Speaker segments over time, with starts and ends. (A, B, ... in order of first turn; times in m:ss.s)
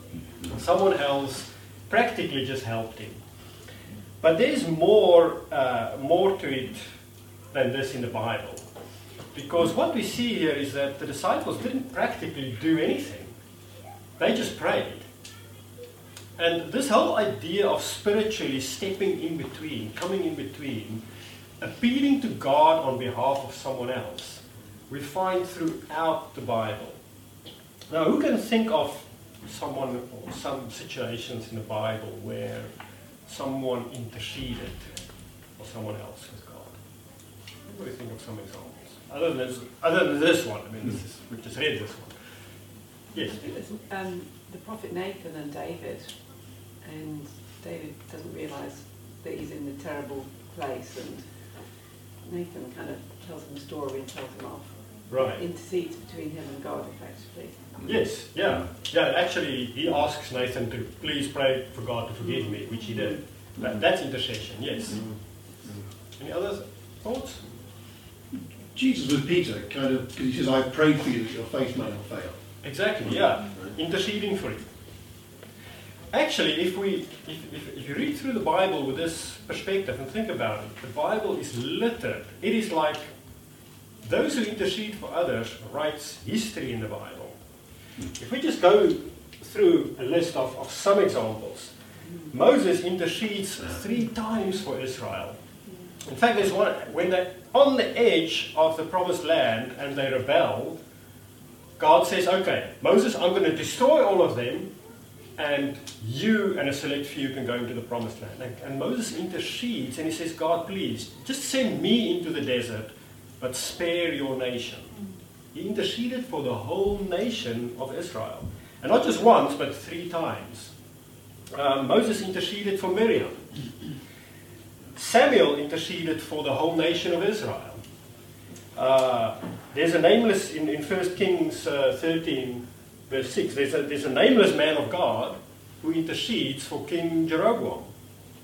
0:00.5-0:03.2 A
0:04.2-0:07.0 A
0:07.5-0:08.7 A
0:09.3-0:13.4 A
0:14.2-0:15.1 A
0:16.4-0:21.0 A
0:21.6-0:27.0 A
0:27.9-0:32.7 A
0:33.3-0:34.9 A
0:35.6-0:36.8 A
0:37.7-0:42.2 A
0:43.1-0:43.5 A
0:43.3-0:46.2 B
0:46.8-0:51.5 B
0:52.2-0:57.8 B
0:55.1-0:55.4 A
0:57.8-1:05.0 A
1:04.9-1:05.2 C
1:06.2-1:07.4 A
1:08.7-1:12.4 C
1:12.6-1:14.7 A
1:16.1-1:23.1 A
1:24.0-1:27.4 A
1:28.2-1:31.7 A
1:32.3-1:35.4 A
1:36.0-1:40.8 A
1:41.8-1:44.7 A
1:45.4-1:54.9 A
1:55.5-2:00.7 A
2:01.5-2:03.5 A
2:05.0-2:07.8 A
2:08.8-2:17.9 A